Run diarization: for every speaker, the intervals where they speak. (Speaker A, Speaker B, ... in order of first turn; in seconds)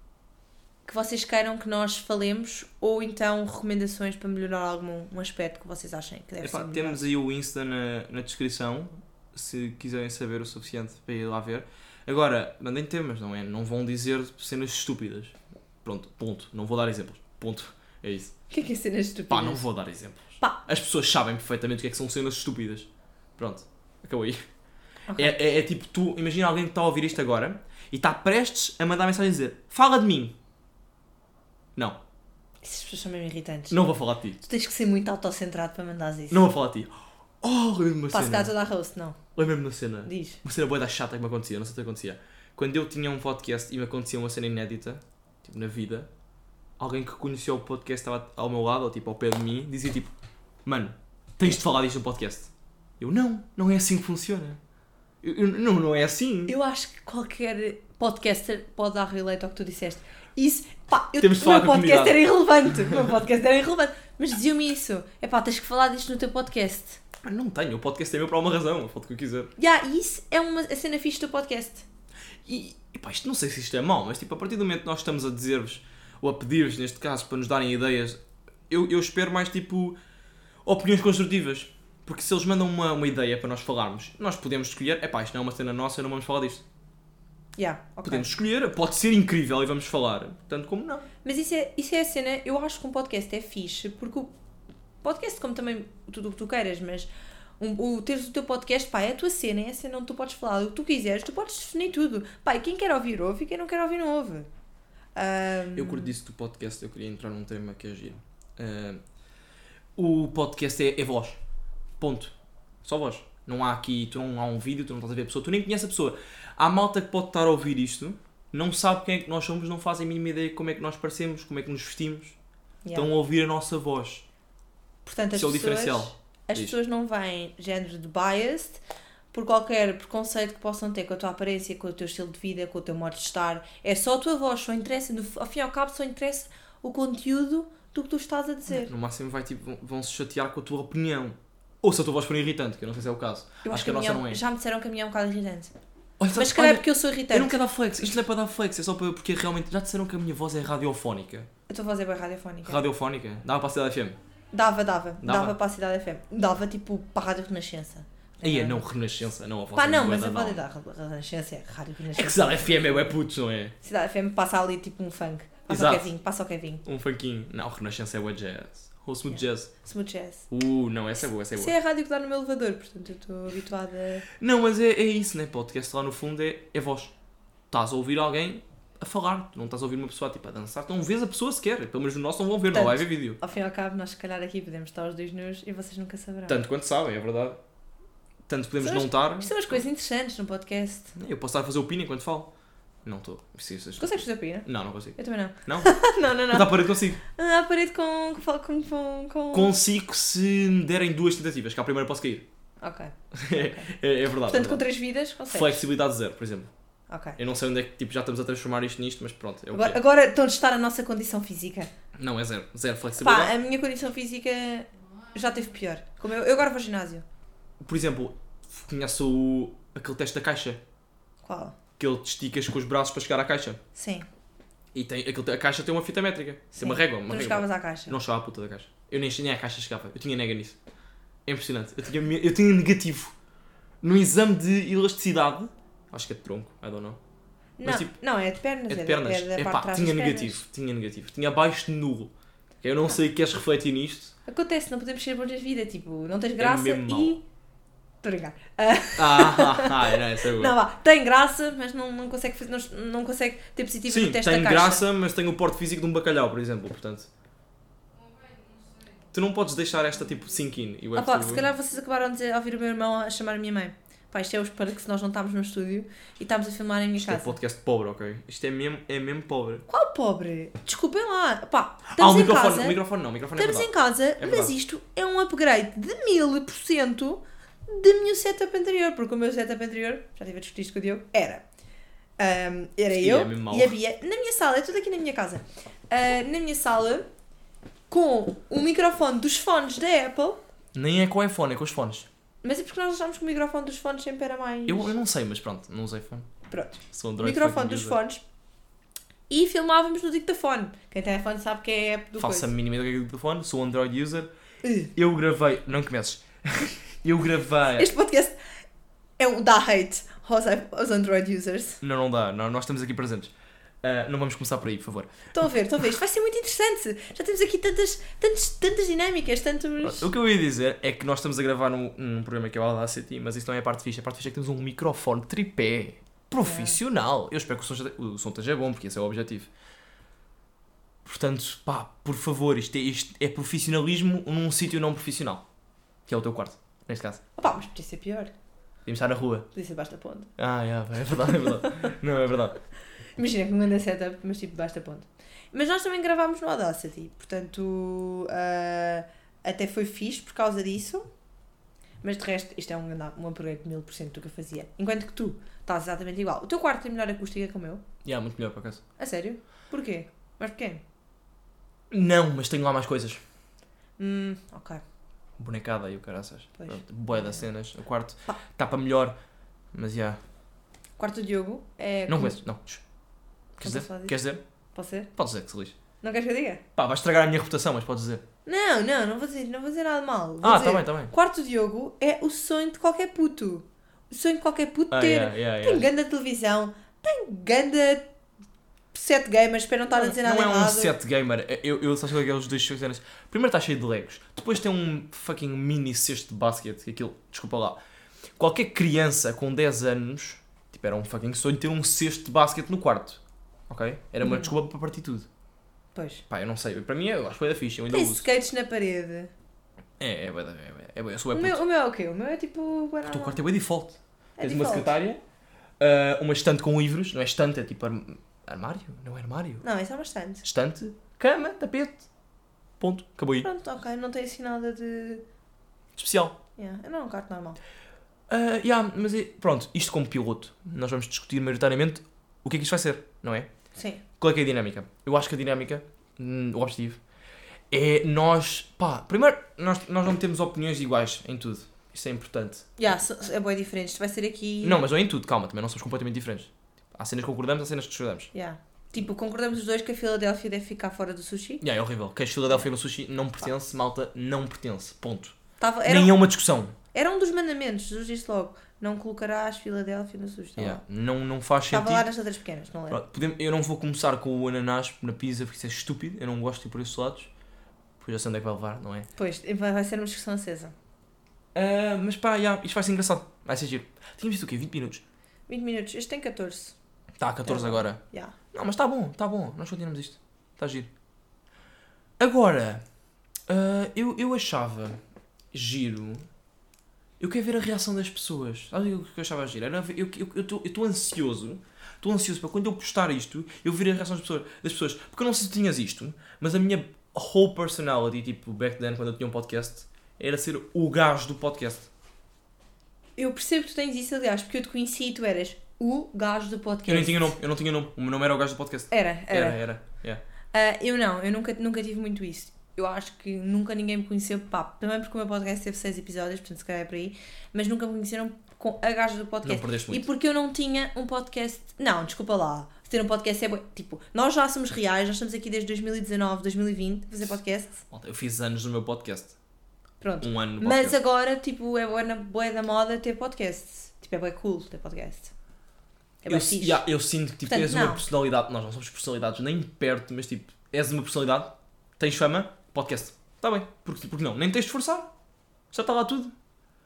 Speaker A: 0.8-7.0, 18.5-19.6, 25.1-25.4, 32.6-33.8, 34.4-36.4, 38.1-39.2, 40.0-40.4, 56.5-67.0, 69.6-71.8, 87.6-88.3, 91.2-94.3, 95.0-104.5, 105.1-106.1, 122.8-123.1, 125.0-128.8, 129.3-138.9, 143.6-145.7, 146.3-147.6, 151.7-152.8, 154.5-158.8, 159.7-162.7, 163.8-166.8, 169.3-170.5, 171.6-174.2, 182.7-186.6, 188.8-191.1, 194.0-199.7, 202.8-203.9, 204.5-205.8, 207.1-207.4, 209.7-211.9, 213.2-217.2, 221.4-221.8, 223.9-224.3, 226.8-228.1, 237.8-240.6, 244.5-247.4, 248.2-255.0, 261.1-267.6, 269.9-273.0, 273.6-281.6, 282.4-287.3, 288.1-290.6, 292.6-295.1, 296.7-298.4, 299.5-302.7, 304.8-305.1, 308.0-308.6, 309.4-312.0, 315.5-320.3, 326.6-327.0, 337.6-338.5, 339.7-340.5, 341.8-342.1, 343.4-351.3, 352.2-358.0, 359.2-361.0, 364.2-365.0, 366.8-367.6, 371.2-372.6, 373.8-374.4, 374.9-375.3, 376.2-376.8, 378.6-388.3, 389.1-391.1, 404.4-404.7, 406.1-406.4, 408.1-409.5, 411.5-413.6, 414.6-415.1, 419.8-420.6, 423.6-425.4, 426.8-427.8, 433.9-434.2, 443.0-445.0, 448.5-451.8, 455.8-456.4, 457.1-461.0, 461.9-463.2, 469.4-470.9, 475.7-476.9, 477.6-478.5, 503.4-507.6, 509.1-509.8, 510.7-528.0, 530.2-535.5, 536.4-537.0, 537.6-538.2
Speaker B: 6.4-18.3, 19.3-24.4, 25.1-30.3, 33.7-34.4, 36.3-38.5, 39.3-46.1, 46.8-50.1, 50.6-54.6, 55.2-56.5, 61.2-62.2, 67.2-69.5, 72.4-80.0, 80.6-86.6, 88.0-91.1, 105.7-109.0, 110.0-111.4, 112.0-122.4, 122.9-124.2, 125.3-126.7, 138.7-144.4, 146.2-151.5, 152.6-154.2, 155.2-155.5, 158.4-160.6, 162.1-163.7, 165.7-166.1, 166.8-169.7, 170.5-171.7, 174.4-177.1, 177.7-183.4, 186.5-187.6, 188.5-189.7, 191.1-192.5, 193.0-196.0, 196.5-197.2, 199.5-202.4, 203.3-204.8, 205.5-206.7, 207.4-210.0, 212.1-213.5, 217.8-220.8, 222.0-223.8, 224.9-230.8, 231.4-233.3, 234.0-237.2, 237.8-238.1, 238.9-244.3, 246.6-247.4, 249.2-250.8, 254.1-257.3, 259.3-261.7, 267.2-269.8, 272.1-274.7, 283.1-283.9, 290.9-292.3, 294.9-296.5, 297.1-298.2, 302.4-304.5, 305.1-308.1, 312.0-315.5, 320.0-329.7, 331.2-335.6, 336.3-337.4, 339.1-339.7, 340.6-342.8, 358.2-359.0, 362.1-363.4, 365.6-369.4, 369.9-370.4, 372.3-373.0, 373.8-374.6, 375.4-375.9, 376.9-378.4, 380.6-381.3, 385.1-386.1, 390.1-398.0, 398.6-405.5, 406.5-408.4, 410.2-411.8, 413.3-415.4, 416.0-419.8, 420.6-422.2, 423.0-423.7, 426.1-426.6, 428.5-433.7, 434.4-437.2, 437.9-442.9, 444.8-448.5, 451.8-456.9, 460.8-462.3, 463.1-467.5, 468.2-469.3, 471.7-475.2, 477.4-478.2, 478.7-481.1, 482.4-483.0, 483.7-485.2, 485.7-486.5, 487.4-502.1, 507.1-510.4, 519.6-520.2, 528.1-529.5, 530.4-531.2, 536.5-545.3, 545.9-546.5